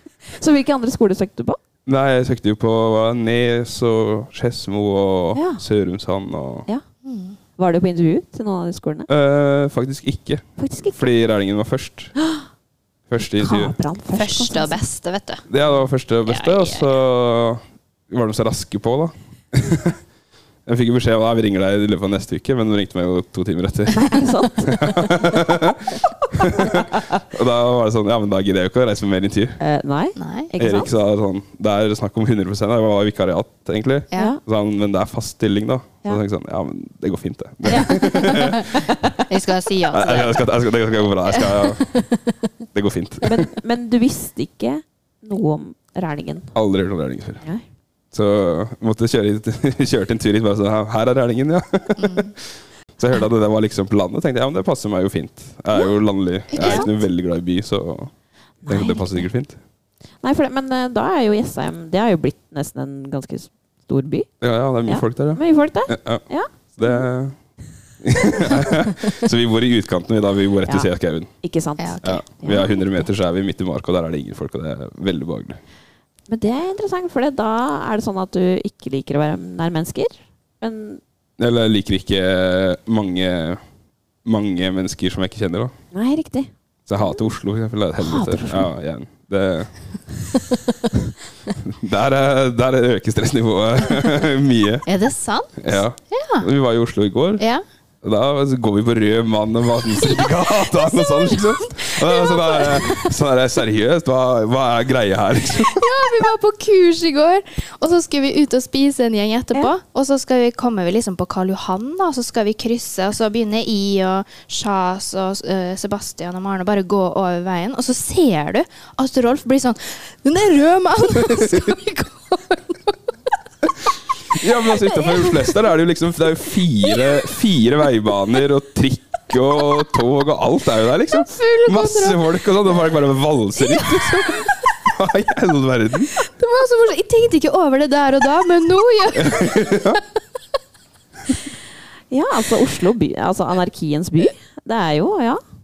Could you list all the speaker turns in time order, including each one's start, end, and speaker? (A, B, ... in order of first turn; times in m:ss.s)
0:00.3-0:01.6 A
0:01.8-0:06.7 B
0:05.3-0:05.6 A
0:07.0-0:07.4 C
0:07.6-0:09.1 A
0:09.1-0:12.1 B
0:10.6-0:11.1 A
0:12.2-0:12.4 A
0:13.1-0:13.7 B
0:13.4-0:14.8 A
0:14.1-0:15.4 C
0:15.5-0:20.0 B
0:16.2-0:16.9 C
0:20.6-0:29.6 B
0:23.9-0:25.3 A
0:26.3-0:27.2 A
0:29.6-0:30.9 A
0:30.2-0:30.5 C
0:30.6-0:38.9 B
0:34.1-0:34.4 C
0:34.1-0:34.4 A
0:37.6-0:39.2 A
0:38.0-0:38.6 C
0:39.3-0:40.5 C
0:39.9-0:42.0 B
0:41.3-0:42.3 C
0:42.7-0:43.3 B
0:43.2-0:46.5 A
0:46.5-0:47.4 B
0:48.1-0:52.4 B
0:52.0-0:52.3 C
0:53.0-0:58.1 B
0:56.5-0:56.9 C
0:56.6-0:56.9 A
0:58.6-0:59.2 A
0:58.7-0:59.6 B
1:00.2-1:04.3 A
1:04.4-1:07.4 B
1:04.8-1:07.0 A
1:08.0-1:11.3 B
1:08.4-1:08.7 A
1:11.4-1:12.8 A
1:11.8-1:12.2 C
1:12.0-1:15.6 B
1:16.3-1:21.0 A
1:21.4-1:23.6 B
1:24.2-1:25.7 B
1:25.9-1:26.5 A
1:26.9-1:29.7 B
1:28.0-1:28.7 A
1:31.6-1:34.8 B
1:34.8-1:36.5 C
1:35.6-1:37.4 B
1:38.0-1:45.9 B
1:40.1-1:43.1 C
1:45.6-2:03.0 C
2:01.3-2:01.7 B
2:04.3-2:16.1 B
2:04.7-2:05.5 C
2:11.1-2:12.2 C
2:13.6-2:14.5 C
2:16.2-2:20.0 C
2:19.1-2:20.0 B
2:22.1-2:25.4 A